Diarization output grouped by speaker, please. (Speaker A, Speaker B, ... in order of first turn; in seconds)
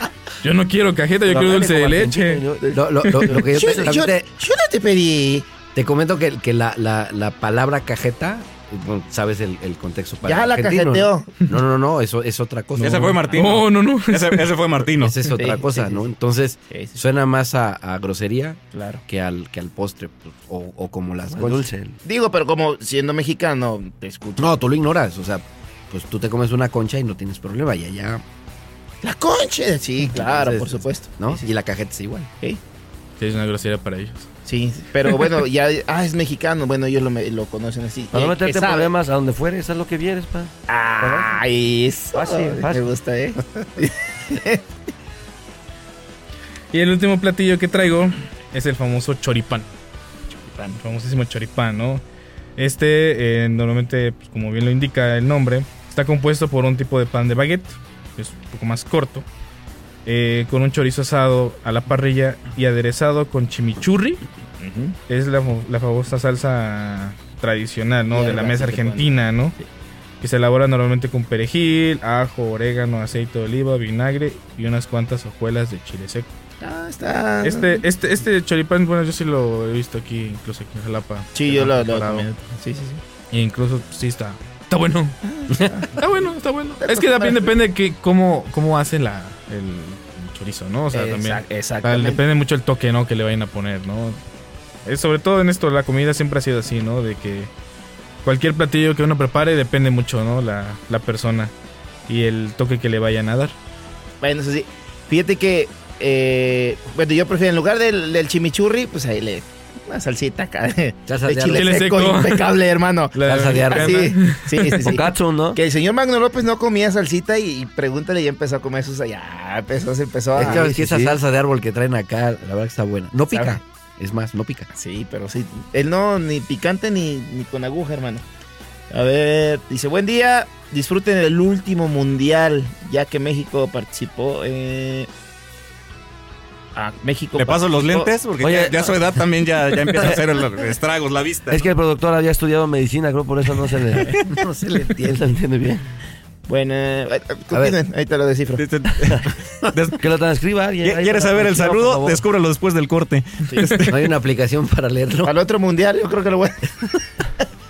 Speaker A: 0.4-2.4, 12.8-14.5, 33.2-34.3, 46.7-49.7, 50.7-52.0, 52.5-59.2, 60.0-64.2, 65.1-69.5, 70.2-76.3, 77.4-82.4, 83.3-85.2, 86.0-94.2, 94.8-97.5, 98.2-101.5, 102.1-103.5, 111.5-112.4, 113.1-114.9, 153.6-153.9
Speaker B: 1.2-2.8, 3.3-4.1, 21.3-22.0, 38.1-41.4, 42.1-42.9, 114.8-115.6, 120.3-121.2, 138.4-139.2, 141.5-144.2, 145.0-145.8, 150.0-152.2
Speaker C: 2.7-4.3, 5.7-13.2, 15.0-21.6, 24.4-28.2, 30.1-32.3, 111.1-111.8, 113.2-114.1, 120.3-124.7, 147.5-147.8, 153.9-155.3
Speaker D: 3.3-5.5, 10.2-11.5, 15.3-16.1, 16.7-17.0, 18.7-19.0, 22.0-24.5, 29.0-31.4, 34.5-38.9, 40.7-44.6, 50.4-50.8, 64.6-65.0, 68.1-69.1, 76.6-77.8, 81.3-83.0, 85.3-85.9, 86.8-87.5, 90.9-92.2, 104.2-120.7, 123.3-123.6, 124.7-128.2, 128.9-135.1, 136.7-138.1, 144.1-145.1, 146.5-148.6, 155.2-156.8
Speaker E: 12.8-15.2, 137.4-141.7, 148.6-150.0, 150.8-153.9